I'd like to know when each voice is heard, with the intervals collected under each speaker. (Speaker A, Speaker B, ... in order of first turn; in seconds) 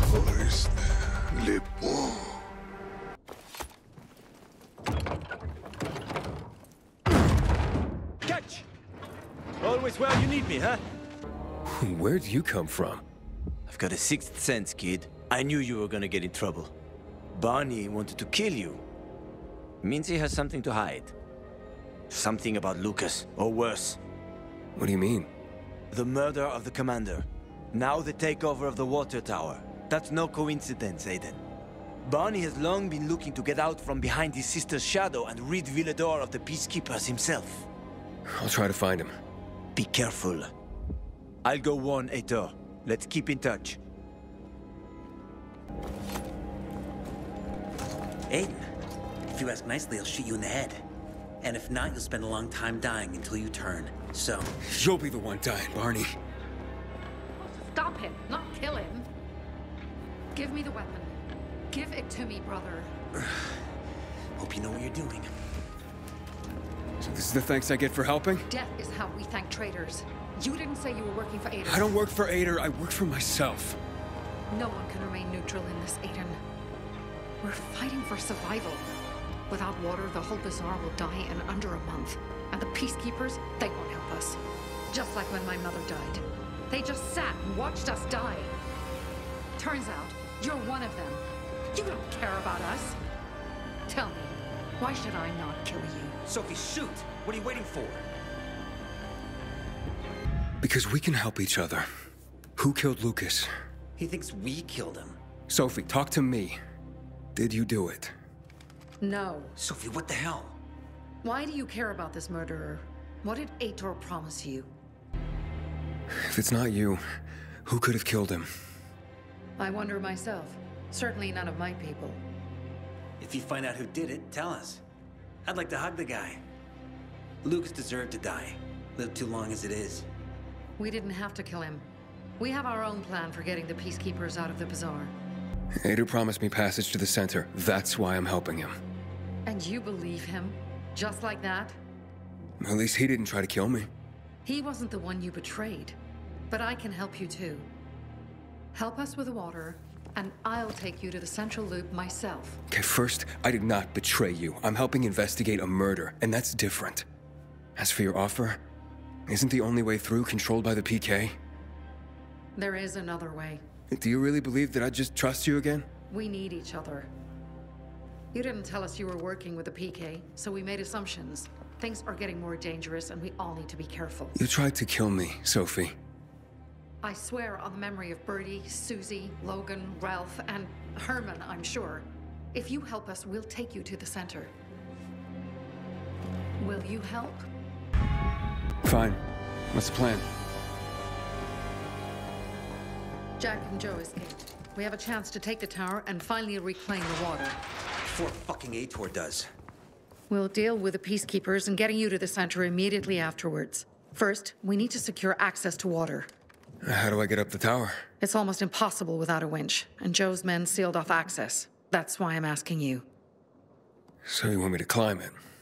Speaker A: 8.2-8.7, 9.6-10.8, 13.7-16.7, 17.3-18.8, 19.8-21.1, 22.1-24.0, 25.9-31.4, 32.0-37.7, 39.8-40.5, 41.4-43.8
Speaker B: 11.7-13.0, 24.8-25.3, 38.3-39.1, 54.6-56.1, 67.0-68.5, 71.7-73.8, 100.6-101.9, 102.6-103.5, 105.5-106.6, 107.3-108.2, 116.1-117.0, 117.7-118.5, 135.8-138.8, 142.6-143.9, 152.7-157.1, 157.8-158.6, 159.3-161.4, 163.9-165.9, 174.3-175.9, 188.8-190.2, 206.8-208.0, 214.2-215.4
Speaker C: 48.3-48.6, 49.3-50.8, 51.4-54.5, 64.4-65.3, 96.3-98.0, 104.0-105.2, 109.6-110.6, 123.2-124.8, 125.5-126.4, 127.4-130.1, 198.0-199.5
Speaker D: 57.4-59.1, 60.4-61.1, 61.7-62.9, 68.5-71.9, 74.5-76.4, 77.4-78.9, 79.5-84.4, 84.9-88.5, 89.6-93.0, 93.9-96.2, 109.0-109.6, 111.2-114.7, 119.6-122.2, 130.8-131.9, 132.4-135.1, 139.5-141.8, 144.4-146.0, 146.5-147.7, 148.7-152.6, 162.6-163.6, 166.1-167.1, 168.3-174.3, 177.0-184.5, 186.6-187.5, 193.4-197.6, 200.3-206.3, 208.2-213.1